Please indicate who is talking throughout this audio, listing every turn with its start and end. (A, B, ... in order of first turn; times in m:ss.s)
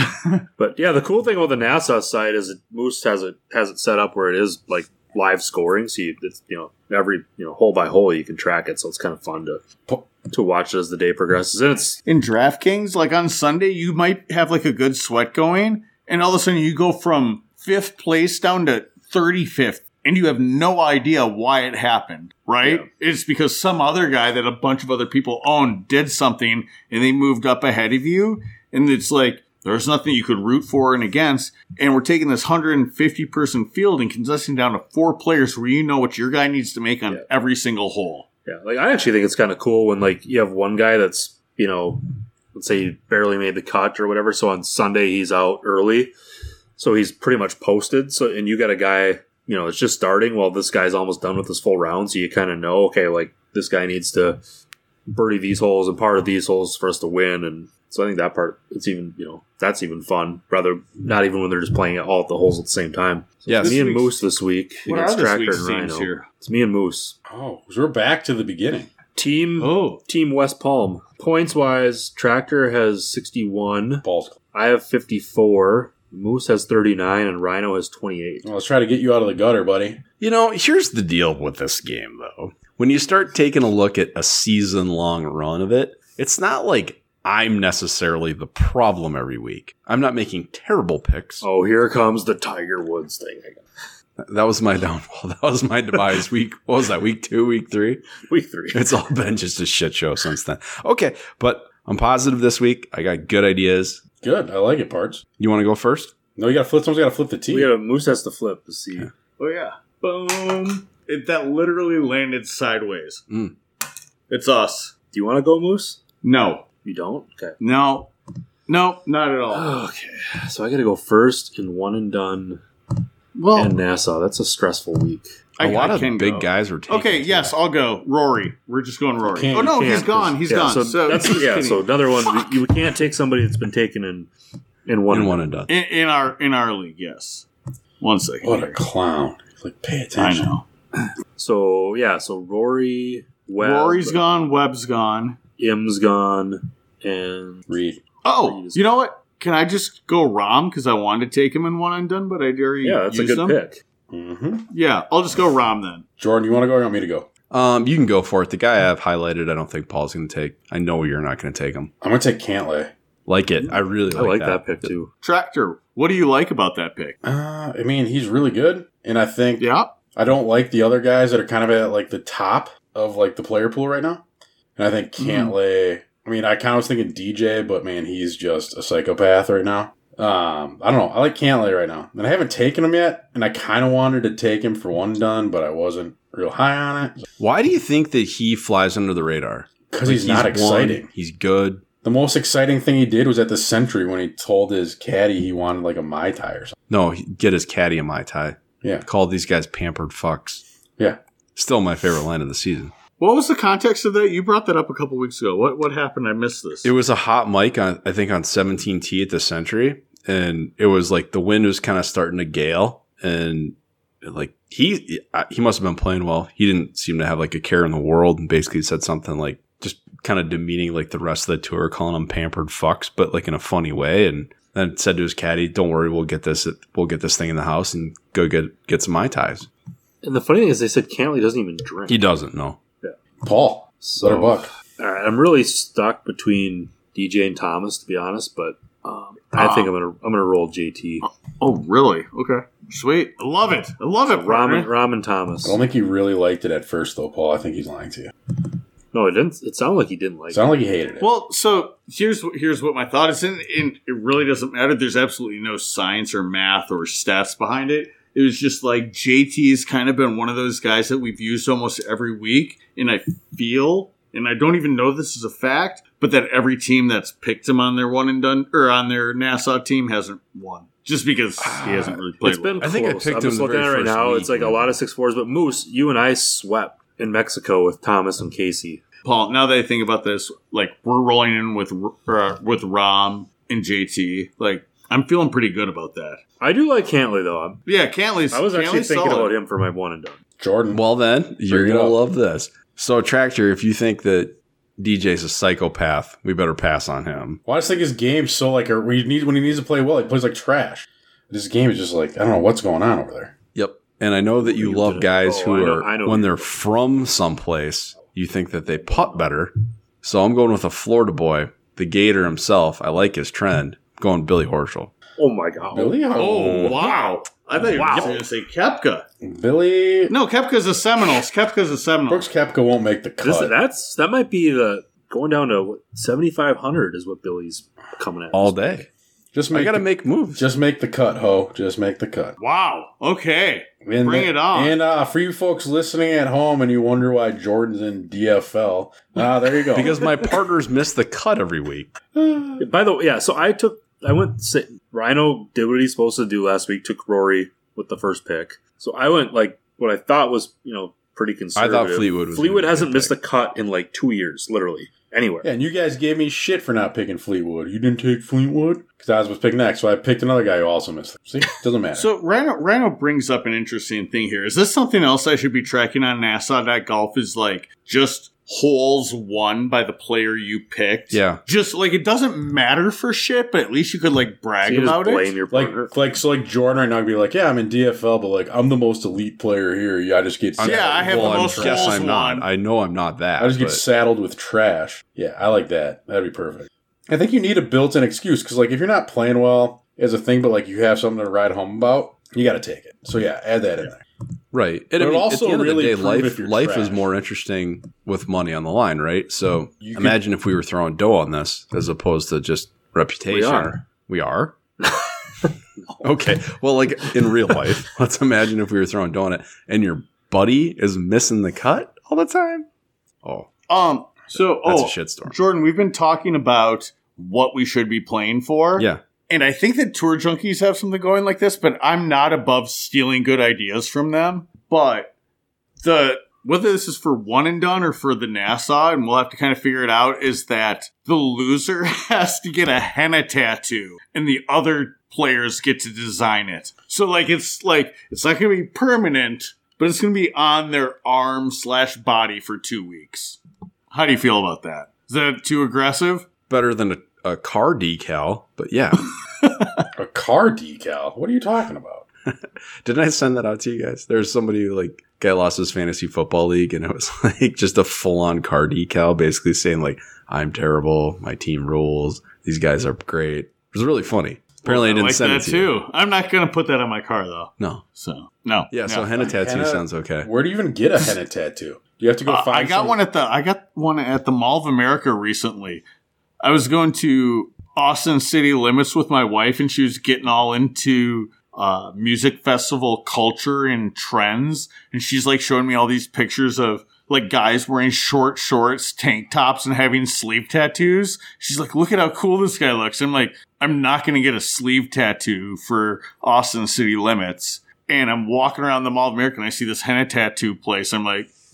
0:00.6-0:09.7 A
0:10.3-0:12.0 A
0:12.0-0:38.3 B
0:38.4-0:46.1 A
0:46.8-0:54.4 A
0:55.1-1:07.2 A
1:03.4-1:03.8 C
1:03.6-1:04.2 B
1:04.8-1:06.2 B
1:07.3-1:08.9 D
1:09.1-1:18.4 A
1:09.6-1:10.0 B
1:14.0-1:14.4 D
1:18.4-1:20.0 D
1:20.2-1:31.4 C
1:31.4-1:33.6 A
1:34.2-1:38.2 C
1:38.3-1:39.0 A
1:38.7-1:44.0 C
1:44.2-1:45.2 D
1:45.4-1:46.1 C
1:46.4-1:47.7 D
1:47.5-1:49.1 A
1:49.4-1:53.2 B
1:53.3-1:53.5 C
1:54.3-1:54.9 B
1:55.1-1:56.0 A
1:56.2-1:56.6 B
1:56.8-1:57.6 A
1:57.6-1:58.1 B
1:58.7-1:59.7 B
1:59.5-2:02.6 A
2:03.3-2:03.8 B
2:03.6-2:05.3 A
2:05.6-2:12.5 B
2:05.6-2:07.5 C
2:09.2-2:09.8 D
2:09.5-2:14.3 A
2:14.8-2:15.4 A
2:15.1-2:15.7 C
2:15.7-2:17.5 B
2:18.0-2:18.8 B
2:18.4-2:20.5 D
2:20.2-2:21.0 B
2:21.4-2:24.2 A
2:23.6-2:25.4 B
2:25.6-2:27.7 A
2:27.7-2:28.0 D
2:28.2-2:33.6 B
2:28.4-2:28.9 A
2:32.8-2:33.8 A
2:34.1-2:34.6 D
2:34.7-2:36.0 B
2:36.2-2:37.3 D
2:37.5-2:41.9 C
2:42.0-2:42.9 D
2:43.2-2:44.9 C
2:44.1-2:45.1 A
2:45.2-2:47.2 B
2:47.2-2:54.2 D
2:49.6-2:49.9 B
2:54.8-3:07.2 D
2:55.2-2:55.5 B
3:07.4-3:11.8 C
3:09.9-3:11.1 D
3:12.0-3:16.7 D
3:16.9-3:20.6 C
3:21.6-3:22.9 C
3:23.2-3:26.9 B
3:26.8-3:49.7 C
3:50.2-3:52.3 A
3:52.1-3:52.8 C
3:53.4-3:54.7 D
3:54.0-4:01.2 A
3:59.6-3:59.9 B
4:01.2-4:04.9 B
4:04.3-4:05.8 A
4:05.6-4:08.3 D
4:09.1-4:10.7 A
4:10.5-4:11.2 D
4:11.2-4:32.9 B
4:31.6-4:32.2 C
4:32.4-4:39.0 A
4:32.8-4:35.0 C
4:39.2-4:46.4 B
4:46.6-4:47.8 A
4:47.8-4:49.5 B
4:48.5-4:50.4 A
4:50.6-4:51.0 D
4:50.9-4:57.6 C
4:51.7-4:52.2 D
4:57.6-5:03.6 D
5:03.7-5:15.1 C
5:04.6-5:06.8 A
5:09.0-5:09.5 A
5:15.4-5:16.2 A
5:15.9-5:17.0 D
5:16.3-5:19.2 B
5:17.8-5:18.4 A
5:18.0-5:18.2 C
5:19.4-5:20.3 D
5:20.3-5:22.5 B
5:22.3-5:23.7 D
5:23.4-5:29.1 A
5:28.5-5:29.1 C
5:29.5-5:30.0 D
5:29.7-5:30.6 C
5:30.6-5:32.6 D
5:32.6-5:35.0 B
5:34.0-5:40.4 D
5:39.9-5:42.1 C
5:42.3-5:42.9 D
5:42.8-5:55.7 A
5:51.8-5:53.4 C
5:55.6-6:02.3 D
6:02.2-6:15.5 B
6:11.3-6:11.6 C
6:14.8-6:16.1 A
6:15.7-6:22.2 D
6:20.8-6:24.0 C
6:20.8-6:22.6 B
6:23.6-6:34.2 D
6:34.7-6:45.2 C
6:35.2-6:37.2 D
6:40.0-6:40.4 D
6:43.5-6:44.0 A
6:46.0-6:46.3 A
6:46.2-6:52.8 C
6:53.4-6:53.7 C
6:53.9-7:05.3 B
6:54.8-6:55.6 C
7:06.0-7:23.6 B
7:24.1-7:26.5 B
7:26.7-7:29.2 C
7:29.6-7:30.0 B
7:30.2-7:32.2 D
7:32.5-7:45.9 C
7:44.8-7:49.3 B
7:47.8-7:48.0 C
7:48.9-7:50.5 C
7:49.3-7:53.2 D
7:52.4-7:56.0 B
7:56.6-8:21.5 B